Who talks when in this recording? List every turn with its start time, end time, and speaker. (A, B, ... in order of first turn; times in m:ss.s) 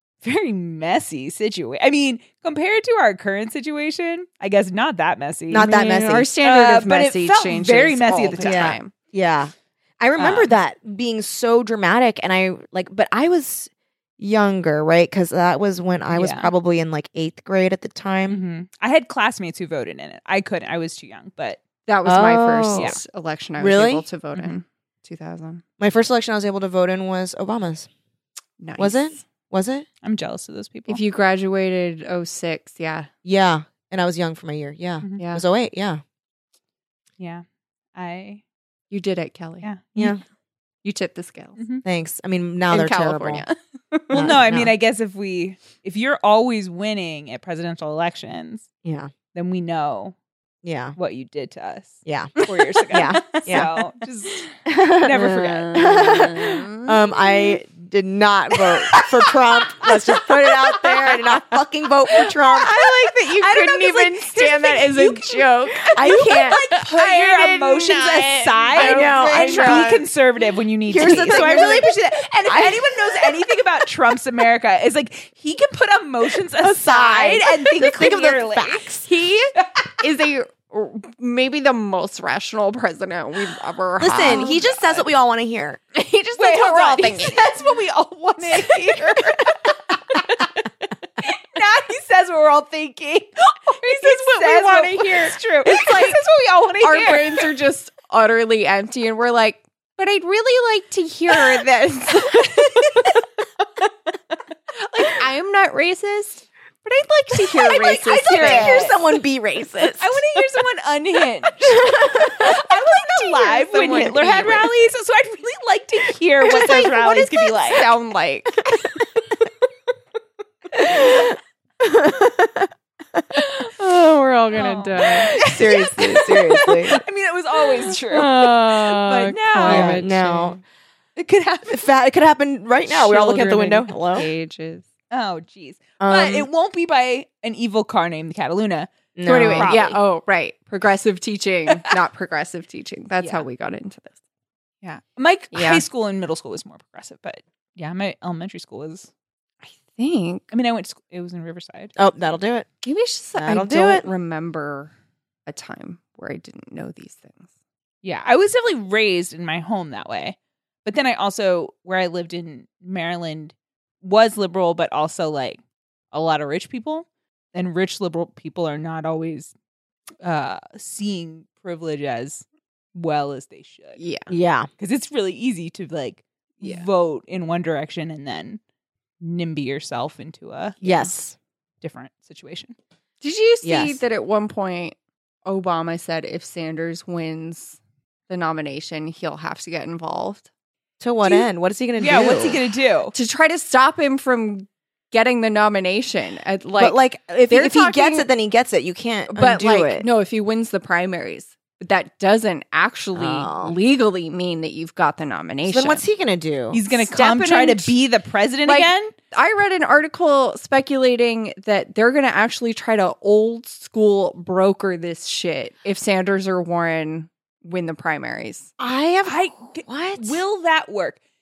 0:00.2-0:05.7 A
0:05.5-0:06.3 B
0:05.6-0:08.9 C
0:06.4-0:08.8 A
0:08.4-0:18.4 B
0:10.2-0:10.5 A
0:16.1-0:16.5 A
0:18.3-0:21.6 A
0:21.9-0:25.6 C
0:22.0-0:23.0 B
0:23.6-0:24.0 B
0:25.8-0:27.9 B
0:28.6-0:29.2 C
0:28.8-0:29.9 B
0:30.0-0:31.0 A
0:30.9-0:33.1 C
0:33.2-0:36.0 B
0:35.2-0:35.4 C
0:37.2-0:37.4 A
0:38.0-0:38.4 A
0:38.9-0:39.7 C
0:39.6-0:40.2 A
0:40.8-0:41.6 C
0:41.6-0:41.8 A
0:41.8-0:43.5 B
0:42.7-0:44.4 C
0:44.1-0:44.7 B
0:44.1-0:48.7 A
0:48.8-0:49.1 B
0:49.3-0:50.2 A
0:50.6-0:51.0 B
0:51.0-0:54.5 A
0:52.1-0:52.3 B
0:52.4-0:53.8 C
0:52.9-0:53.7 B
0:54.7-1:02.9 B
0:55.0-0:56.0 A
0:55.1-0:57.6 C
0:58.6-1:01.6 C
1:02.1-1:10.0 C
1:03.4-1:05.2 B
1:03.7-1:04.0 A
1:04.6-1:05.2 A
1:05.9-1:06.6 B
1:06.0-1:18.9 A
1:08.7-1:10.1 B
1:10.9-1:11.9 B
1:11.0-1:11.9 C
1:12.5-1:13.6 B
1:16.6-1:19.1 B
1:19.0-1:25.0 C
1:24.0-1:25.8 B
1:25.9-1:27.5 C
1:26.4-1:29.6 A
1:28.4-1:30.5 C
1:31.2-1:37.5 A
1:33.7-1:36.2 C
1:36.8-1:43.1 C
1:42.3-1:43.1 A
1:44.8-1:49.0 C
1:47.6-1:49.0 A
1:47.7-1:50.2 B
1:50.0-1:51.8 A
1:51.6-1:52.6 B
1:52.4-1:54.7 C
1:52.4-1:57.9 A
1:53.8-1:54.7 B
1:56.4-1:57.5 B
1:56.7-1:59.3 C
2:00.8-2:01.3 C
2:00.9-2:02.7 B
2:03.3-2:05.8 C
2:04.5-2:10.0 A
2:05.3-2:07.0 B
2:08.1-2:10.6 C
2:09.6-2:10.6 B
2:11.2-2:11.9 A
2:11.7-2:14.3 B
2:12.9-2:14.8 C
2:15.1-2:18.9 A
2:16.0-2:16.5 B
2:19.2-2:20.0 B
2:19.3-2:24.2 C
2:19.5-2:20.0 A
2:21.7-2:22.0 A
2:24.8-2:29.1 A
2:25.5-2:25.8 C
2:29.6-2:30.4 C
2:30.5-2:31.9 A
2:32.0-2:32.7 B
2:32.8-2:34.9 C
2:33.4-2:34.1 B
2:35.5-2:37.5 C
2:38.0-2:45.6 A
2:46.1-2:49.5 A
2:50.2-2:54.0 A
2:54.0-2:54.3 C
2:54.3-2:54.7 B
2:54.8-2:58.6 A
2:56.6-2:56.9 C
2:59.2-3:01.1 A
3:00.8-3:01.4 B
3:01.8-3:02.8 A
3:03.2-3:07.8 C
3:03.6-3:04.0 B
3:08.3-3:10.5 C
3:11.0-3:12.6 B
3:12.0-3:13.1 A
3:13.1-3:18.3 C
3:16.8-3:20.1 B
3:19.3-3:26.0 C
3:23.1-3:23.8 B
3:25.7-3:26.8 B
3:26.7-3:29.1 A
3:27.0-3:27.9 C
3:28.6-3:38.7 C
3:38.8-3:40.4 B
3:39.2-3:41.2 A